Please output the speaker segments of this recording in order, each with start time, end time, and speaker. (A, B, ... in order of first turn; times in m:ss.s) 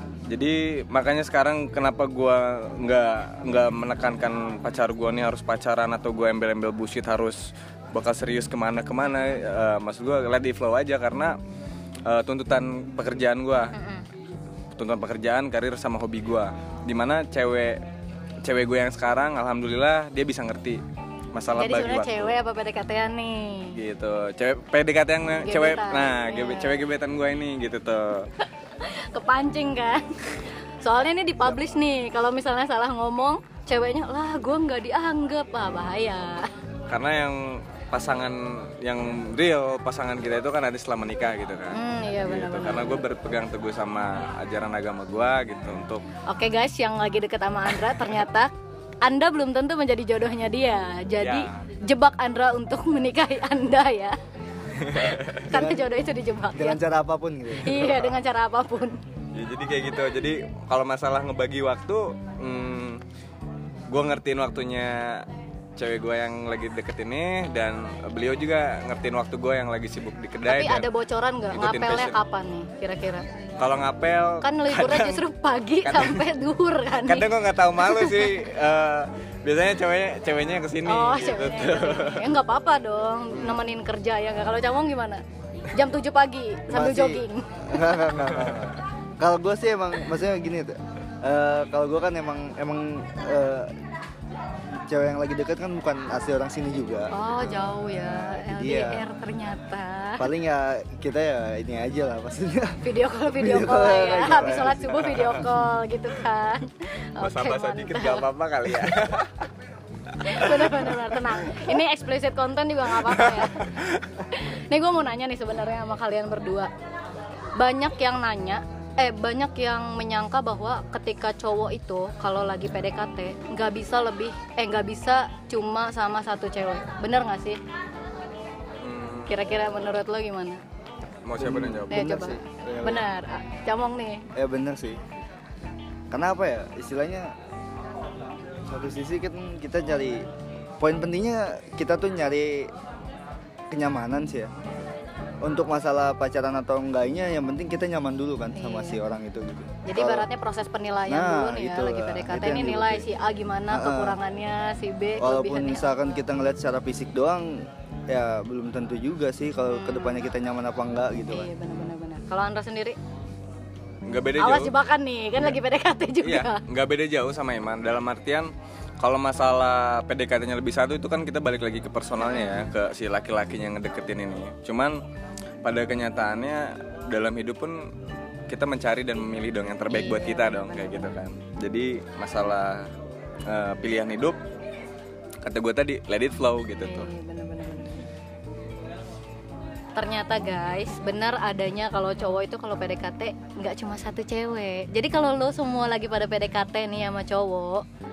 0:00.3-0:11.4 A
0:12.1-0:13.7 A
0:13.7-0:14.0 B
0:14.8-0:17.8 A
0:18.4-0:20.8 A
0:21.3-0:22.4 A
0:21.6-0:23.8 B
0:23.8-0:28.3 A
0:25.4-0:26.8 B
0:28.8-0:36.5 B
0:36.9-0:46.0 A
0:41.7-0:43.0 B
0:46.3-0:54.2 B
0:51.2-0:51.5 A
0:54.8-0:55.5 A
0:55.3-0:56.8 B
0:55.5-0:55.9 C
0:56.5-0:57.9 C
0:57.6-0:59.0 B
0:59.3-1:03.0 A
1:03.9-1:05.3 A
1:05.8-1:10.9 A
1:10.5-1:13.3 B
1:11.5-1:12.2 A
1:13.6-1:15.2 A
1:14.4-1:18.4 B
1:15.8-1:16.2 A
1:17.0-1:22.3 A
1:20.8-1:28.0 B
1:23.3-1:23.6 A
1:26.7-1:33.8 C
1:28.4-1:28.7 A
1:34.7-1:37.3 C
1:37.1-1:40.3 B
1:38.1-1:39.0 C
1:40.2-1:45.2 C
1:42.8-1:48.3 B
1:44.9-1:45.5 A
1:47.2-1:49.5 A
1:50.2-1:51.6 A
1:50.2-1:53.7 B
1:53.0-1:54.2 A
1:54.3-1:56.7 B
1:57.6-2:07.6 B
2:08.8-2:09.6 A
2:09.3-2:10.6 B
2:11.2-2:12.1 A
2:11.4-2:13.1 C
2:11.9-2:14.3 B
2:14.4-2:15.0 C
2:16.1-2:17.3 C
2:18.7-2:20.3 C
2:20.8-2:22.7 C
2:23.7-2:24.5 C
2:25.4-2:30.3 C
2:28.6-2:29.0 B
2:29.8-2:35.9 B
2:31.1-2:33.1 C
2:33.7-2:34.2 C
2:35.2-2:41.5 C
2:39.7-2:40.2 B
2:41.3-2:43.0 B
2:44.1-2:44.7 A
2:44.4-2:46.6 B
2:46.2-2:55.0 A
2:52.2-2:52.7 B
2:55.6-2:57.9 A
2:58.5-3:02.9 A
2:59.9-3:01.0 B
3:03.5-3:04.4 A
3:05.4-3:07.1 A
3:06.8-3:08.1 B
3:10.0-3:17.8 B